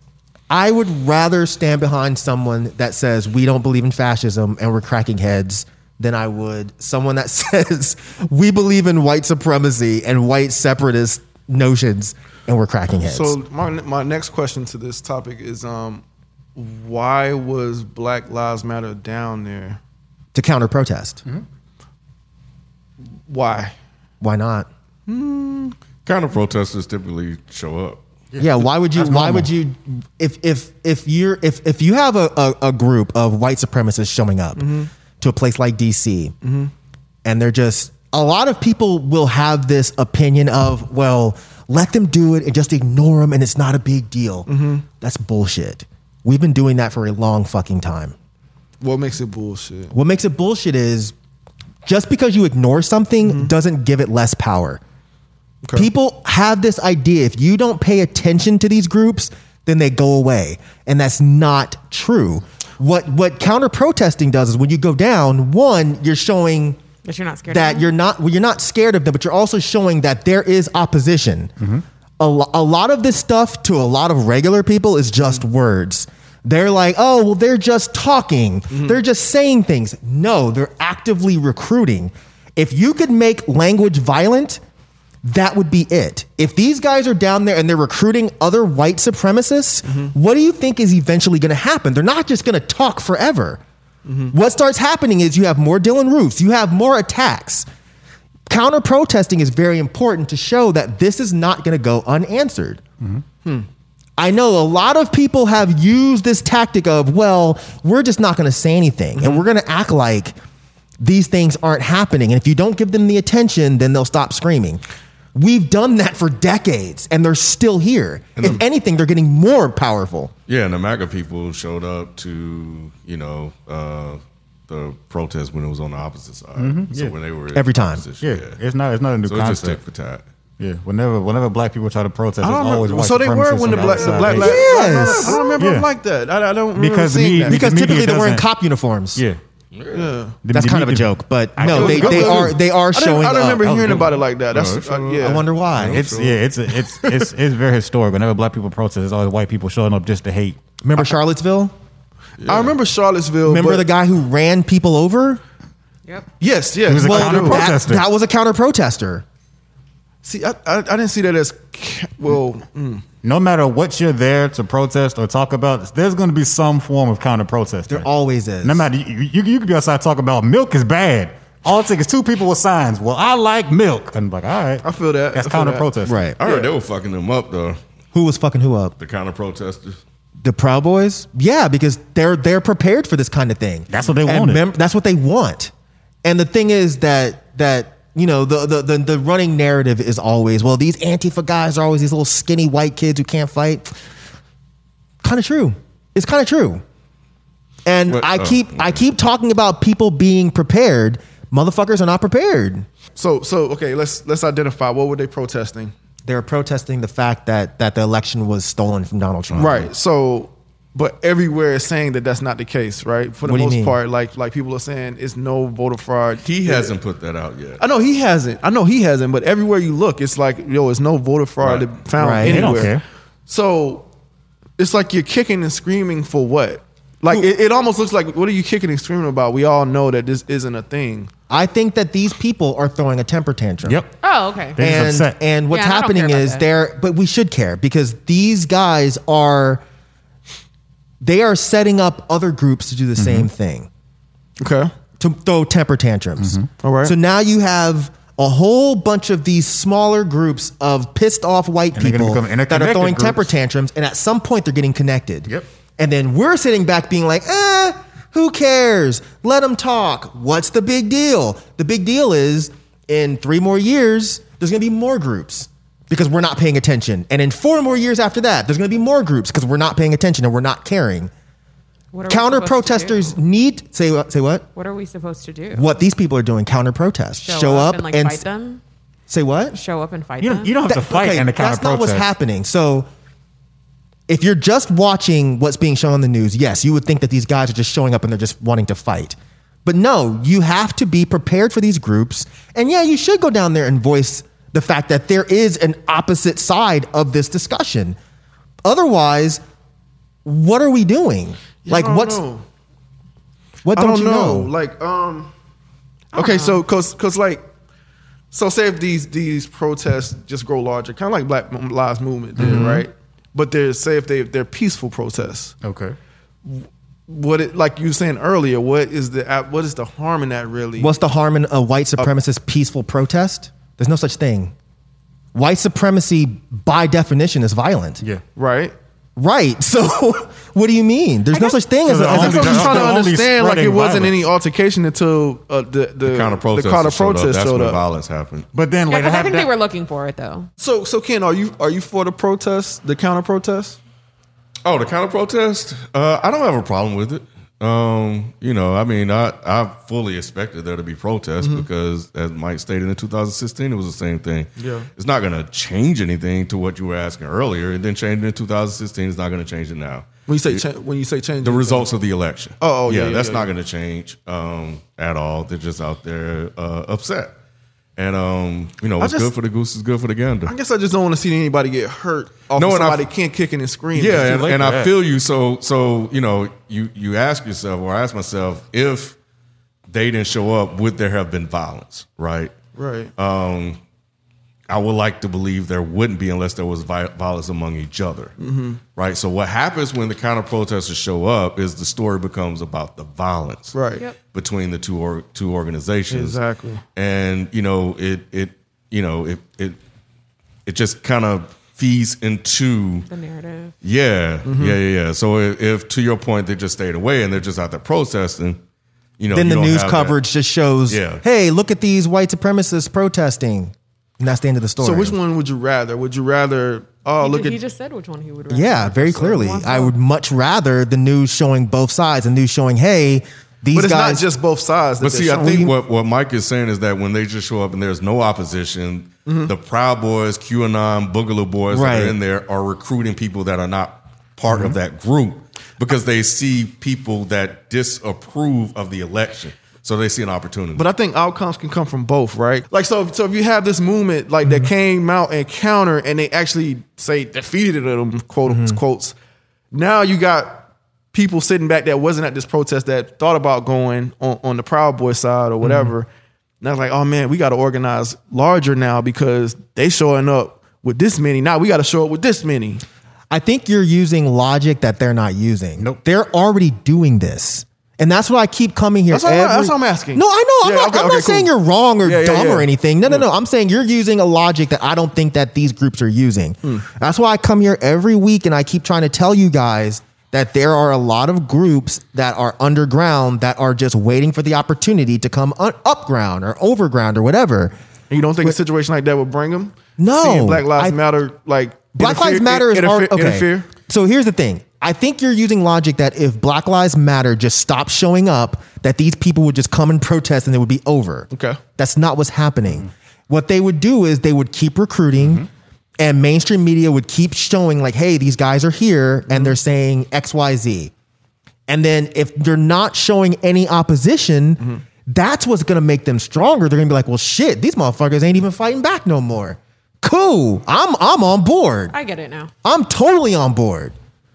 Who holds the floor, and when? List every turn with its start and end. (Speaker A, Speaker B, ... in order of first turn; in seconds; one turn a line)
Speaker A: 0.5-13.4
Speaker B: 13.0-16.0
Speaker B: 16.6-19.8
Speaker A: 20.3-21.2
Speaker B: 23.3-23.7
Speaker A: 24.2-24.7
Speaker B: 25.1-25.8
Speaker C: 26.0-28.0
Speaker D: 28.3-29.5
Speaker A: 28.4-36.4
Speaker B: 34.6-34.9
Speaker B: 36.4-36.7
Speaker A: 37.2-48.1
Speaker B: 44.5-44.9
Speaker B: 48.8-49.9
Speaker A: 49.9-51.1
Speaker A: 51.8-54.8
Speaker B: 53.2-53.5
Speaker B: 55.6-55.9
Speaker A: 55.8-66.8
Speaker E: 67.0-67.9
Speaker A: 67.5-71.5
Speaker A: 72.2-84.6
Speaker B: 78.7-79.0
Speaker A: 85.2-93.6
Speaker B: 94.1-94.3
Speaker A: 94.3-97.7
Speaker A: 98.5-102.8
Speaker A: 104.2-110.3
Speaker A: 111.0-114.8
Speaker A: 115.3-120.3
Speaker C: 120.5-128.6
Speaker D: 126.6-127.2
Speaker A: 127.5-128.1
Speaker D: 128.2-129.8
Speaker C: 129.2-130.2
Speaker D: 130.6-134.6
Speaker B: 132.4-137.6
Speaker A: 134.3-135.4
Speaker D: 135.6-135.9
Speaker D: 136.8-138.5
Speaker A: 137.5-139.2
Speaker C: 139.8-140.2
Speaker B: 139.9-140.4
Speaker D: 140.4-142.6
Speaker A: 140.5-143.9
Speaker B: 141.6-145.5
Speaker D: 143.6-144.2
Speaker C: 143.9-146.4
Speaker A: 145.2-146.1
Speaker D: 145.8-150.6
Speaker A: 150.8-151.7
Speaker C: 152.4-152.8
Speaker B: 152.4-153.9
Speaker A: 153.4-155.4
Speaker B: 156.4-157.7
Speaker D: 156.8-158.0
Speaker A: 157.0-159.2
Speaker B: 160.2-163.0
Speaker D: 163.2-168.1
Speaker A: 167.9-168.9
Speaker D: 168.6-176.2
Speaker B: 174.8-175.9
Speaker A: 176.1-176.4
Speaker C: 176.4-177.8
Speaker B: 176.4-176.7
Speaker A: 178.1-178.9
Speaker C: 179.0-180.0
Speaker A: 180.4-185.7
Speaker D: 183.9-184.6
Speaker A: 186.2-193.9
Speaker A: 195.2-196.8
Speaker A: 197.8-202.9
Speaker C: 198.1-199.0
Speaker B: 203.2-205.9
Speaker A: 206.3-209.9
Speaker C: 209.5-209.8
Speaker B: 209.6-216.9
Speaker A: 213.4-214.0
Speaker C: 216.4-217.8
Speaker B: 217.8-224.1
Speaker C: 221.6-222.0
Speaker A: 222.2-222.8
Speaker D: 222.4-223.0
Speaker B: 224.8-231.3
Speaker A: 231.5-234.0
Speaker D: 233.8-234.1
Speaker E: 234.2-234.8
Speaker D: 234.8-235.4
Speaker A: 234.8-239.8
Speaker E: 235.7-236.7
Speaker A: 241.2-243.9
Speaker D: 243.2-243.5
Speaker B: 244.6-244.9
Speaker A: 245.2-271.3
Speaker D: 246.4-246.7
Speaker B: 246.8-247.2
Speaker D: 251.9-253.5
Speaker E: 272.1-273.4
Speaker A: 272.3-274.7
Speaker E: 274.8-275.9
Speaker A: 275.7-278.4
Speaker E: 277.4-278.8
Speaker A: 279.3-279.8
Speaker E: 279.7-280.8
Speaker D: 280.4-282.3
Speaker A: 280.9-283.1
Speaker A: 284.3-298.2
Speaker A: 298.8-299.6
Speaker A: 300.4-302.4
Speaker B: 301.8-302.6
Speaker A: 303.9-304.7
Speaker B: 303.9-305.5
Speaker B: 306.3-307.6
Speaker E: 306.4-306.8
Speaker B: 308.5-315.8
Speaker D: 312.6-313.0
Speaker A: 312.6-312.9
Speaker D: 315.8-316.2
Speaker B: 316.6-321.2
Speaker A: 321.0-324.7
Speaker A: 325.5-328.2
Speaker B: 328.6-328.9
Speaker A: 329.4-333.2
Speaker E: 331.5-331.8
Speaker D: 332.1-334.4
Speaker B: 332.2-338.0
Speaker C: 336.2-338.7
Speaker D: 338.7-339.7
Speaker E: 339.1-340.7
Speaker B: 340.8-344.0
Speaker C: 344.9-360.8
Speaker B: 351.6-351.9
Speaker B: 354.8-355.1
Speaker B: 360.5-362.1
Speaker C: 361.6-367.6
Speaker B: 362.8-363.7
Speaker C: 368.2-370.8
Speaker B: 369.2-369.5
Speaker B: 370.7-374.7
Speaker C: 372.7-373.3
Speaker C: 374.1-379.4
Speaker D: 374.3-375.1
Speaker C: 380.1-382.8
Speaker B: 382.9-383.3
Speaker C: 383.4-384.0
Speaker C: 384.9-388.6
Speaker B: 388.6-389.0
Speaker C: 389.1-394.0
Speaker B: 393.9-394.2
Speaker C: 394.5-396.6
Speaker B: 396.3-397.0
Speaker C: 397.1-400.0
Speaker C: 400.9-403.3
Speaker E: 403.3-403.9
Speaker C: 404.0-408.8
Speaker B: 404.6-405.0
Speaker C: 409.4-410.4
Speaker A: 409.5-415.4
Speaker C: 411.1-411.4
Speaker B: 415.0-417.8
Speaker E: 417.4-420.1
Speaker A: 418.7-424.4
Speaker B: 423.9-425.9
Speaker C: 425.2-441.1
Speaker A: 425.6-425.9
Speaker B: 429.5-429.7
Speaker A: 431.9-432.4
Speaker B: 441.0-449.3
Speaker A: 444.6-444.9
Speaker A: 448.7-449.0
Speaker B: 449.9-456.3
Speaker B: 456.8-463.0
Speaker A: 463.5-487.9
Speaker B: 469.3-471.7
Speaker B: 472.2-473.5
Speaker B: 488.3-493.9
Speaker A: 490.2-491.2
Speaker A: 492.1-505.6
Speaker B: 501.5-501.8
Speaker D: 505.4-505.7
Speaker A: 506.2-511.1
Speaker B: 509.5-509.8
Speaker A: 511.9-522.1
Speaker E: 522.1-522.7
Speaker A: 522.8-524.1